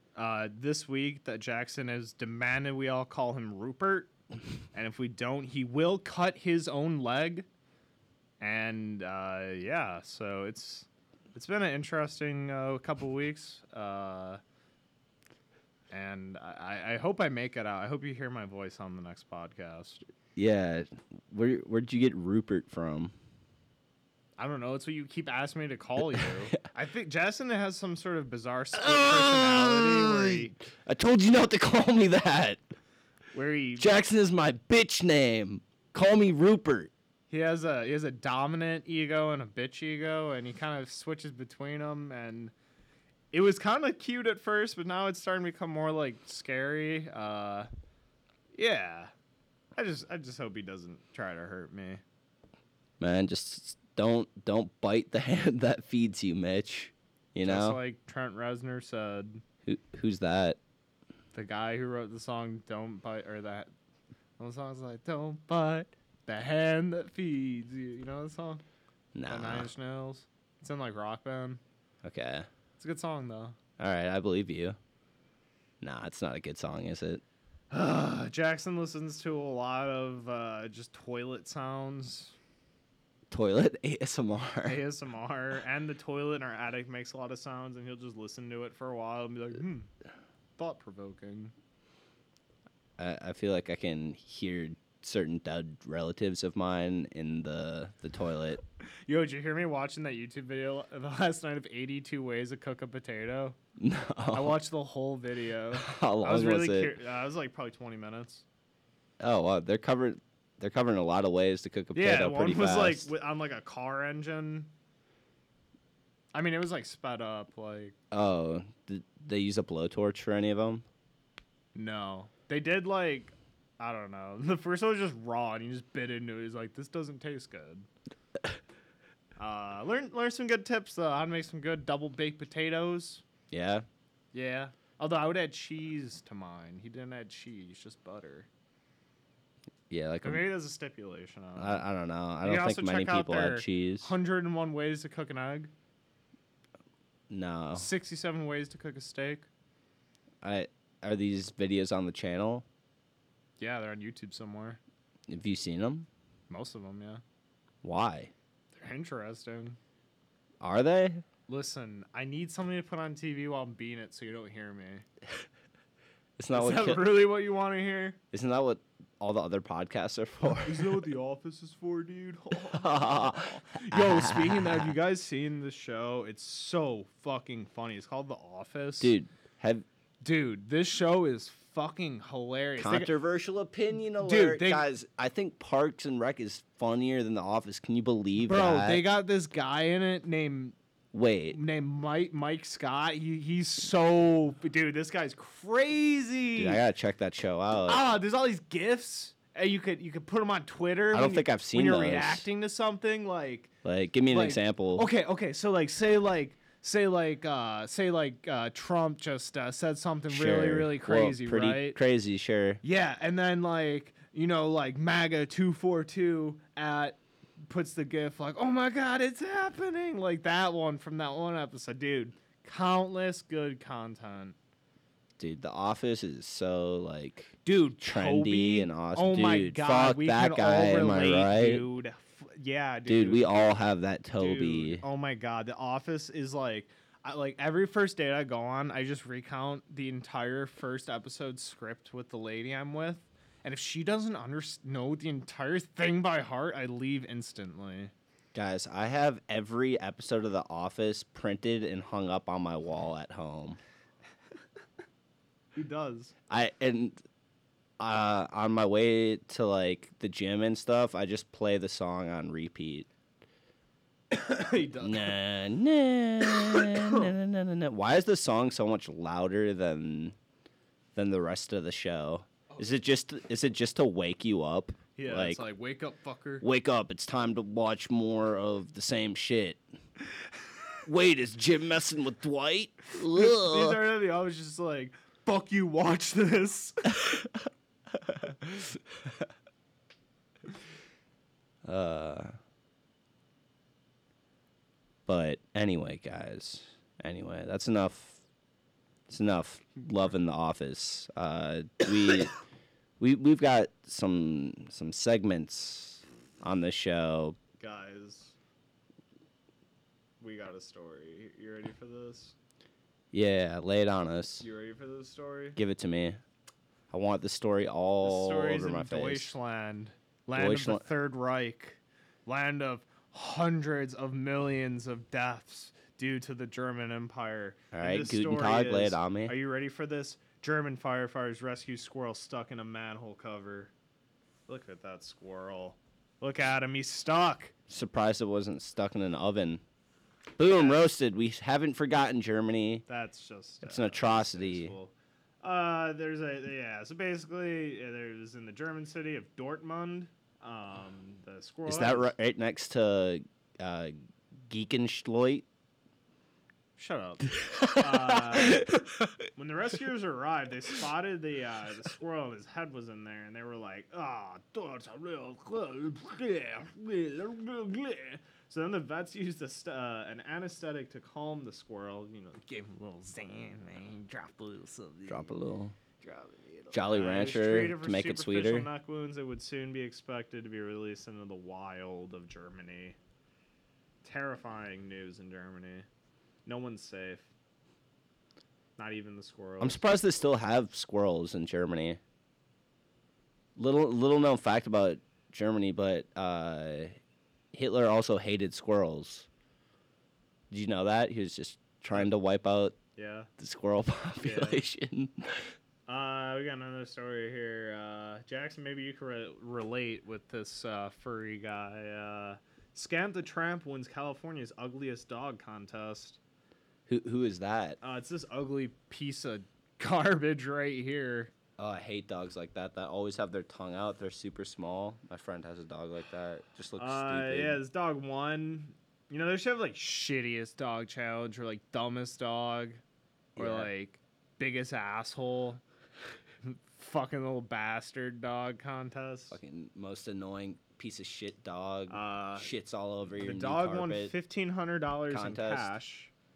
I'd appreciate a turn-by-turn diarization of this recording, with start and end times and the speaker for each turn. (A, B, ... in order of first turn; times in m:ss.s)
0:00.2-0:04.1 A
0:04.7-0:07.5 A
0:08.4-0:14.4 A
0:15.9-0:20.0 A
0:20.4-0:23.1 B
0:24.4-0:30.5 A
0:26.2-0:26.6 B
0:28.7-0:32.6 B
0:33.3-0:34.0 A
0:33.8-0:36.9 B
0:37.3-0:42.5 A
0:43.3-0:47.7 A
0:48.5-0:49.1 A
0:49.8-0:52.0 A
0:53.0-0:57.8 B
0:57.4-0:59.4 A
0:59.6-1:00.6 B
1:01.3-1:03.7 A
1:04.4-1:08.6 A
1:09.1-1:09.7 B
1:09.3-1:11.6 A
1:12.0-1:12.5 B
1:12.8-1:13.6 A
1:13.8-1:14.8 B
1:15.8-1:17.2 B
1:17.7-1:22.3 A
1:23.3-1:24.8 B
1:24.6-1:29.9 A
1:30.6-1:31.5 A
1:33.0-1:38.6 B
1:39.1-1:43.6 A
1:43.8-1:44.6 B
1:44.3-1:48.4 A
1:45.8-1:46.9 B
1:49.2-1:53.1 B
1:51.9-1:54.7 A
1:56.3-1:57.9 A
1:58.1-2:00.8 B
2:01.7-2:07.9 A
2:09.4-2:13.2 A
2:13.5-2:13.8 B
2:14.3-2:18.5 A
2:19.9-2:20.4 B
2:20.2-2:21.8 A
2:21.6-2:24.1 B
2:22.4-2:25.7 A
2:27.3-2:27.9 B
2:27.7-2:29.5 A
2:30.4-2:32.6 B
2:33.6-2:34.8 A
2:35.3-2:36.1 B
2:36.5-2:37.2 A
2:37.8-2:38.3 B
2:38.7-2:39.8 A
2:40.6-2:41.2 B
2:41.5-2:45.0 A
2:46.4-2:47.1 B
2:46.5-2:48.2 A
2:48.3-2:51.0 B
2:50.6-2:59.1 A
2:52.6-2:55.0 B
2:59.0-2:59.8 B
3:00.2-3:03.1 A
3:02.8-3:09.0 B
3:04.2-3:04.8 A
3:08.4-3:10.7 A
3:11.1-3:11.6 B
3:11.5-3:16.8 A
3:16.6-3:18.0 B
3:17.9-3:23.7 A
3:21.1-3:22.4 B
3:23.8-3:25.1 B
3:24.3-3:32.0 A
3:30.3-3:32.8 B
3:32.8-3:44.6 A
3:45.4-3:51.8 B
3:47.6-3:53.8 A
3:53.1-3:55.0 B
3:54.4-4:08.1 A
4:08.5-4:13.8 B
4:15.7-4:16.3 A
4:16.5-4:17.2 B
4:18.0-4:23.1 B
4:24.3-4:25.4 A
4:25.0-4:30.3 B
4:26.6-4:27.3 A
4:31.1-4:35.6 B
4:35.2-4:36.6 A
4:36.6-4:39.8 B
4:41.0-4:44.1 B
4:43.3-4:47.4 A
4:51.8-4:52.5 B
4:55.3-4:58.4 B
4:59.3-5:02.5 B
5:03.2-5:07.6 B
5:07.8-5:08.5 A
5:10.4-5:12.5 A
5:13.3-5:14.6 B
5:14.6-5:15.8 A
5:15.8-5:16.4 B
5:17.1-5:19.5 B
5:18.2-5:33.9 A
5:20.5-5:21.0 B
5:27.9-5:29.5 B
5:34.7-5:37.7 A
5:37.9-5:39.8 B
5:40.6-5:43.0 B
5:40.7-5:41.0 A
5:43.1-5:52.3 A
5:43.8-5:44.9 B
5:51.8-5:54.2 B
5:54.7-5:55.6 B
5:57.0-5:58.9 A
5:57.6-5:59.3 B
5:59.6-6:15.5 A
6:15.3-6:15.9 B
6:16.2-6:23.2 A
6:16.9-6:18.9 B
6:24.2-6:26.1 A
6:26.6-6:27.5 A
6:29.0-6:30.0 A
6:29.8-6:32.2 B
6:33.8-6:37.2 B
6:37.7-6:39.5 B
6:40.7-6:43.0 B
6:43.2-6:43.5 A
6:43.6-6:45.7 B
6:44.4-6:44.8 A
6:46.1-6:56.4 A
6:57.1-6:58.0 B
6:58.0-7:01.5 A
7:01.8-7:07.8 B
7:07.0-7:13.0 A
7:13.6-7:13.9 B
7:13.6-7:15.8 A
7:16.6-7:19.6 A
7:19.5-7:24.3 B
7:22.1-7:22.7 A
7:23.4-7:26.3 A
7:25.3-7:25.9 B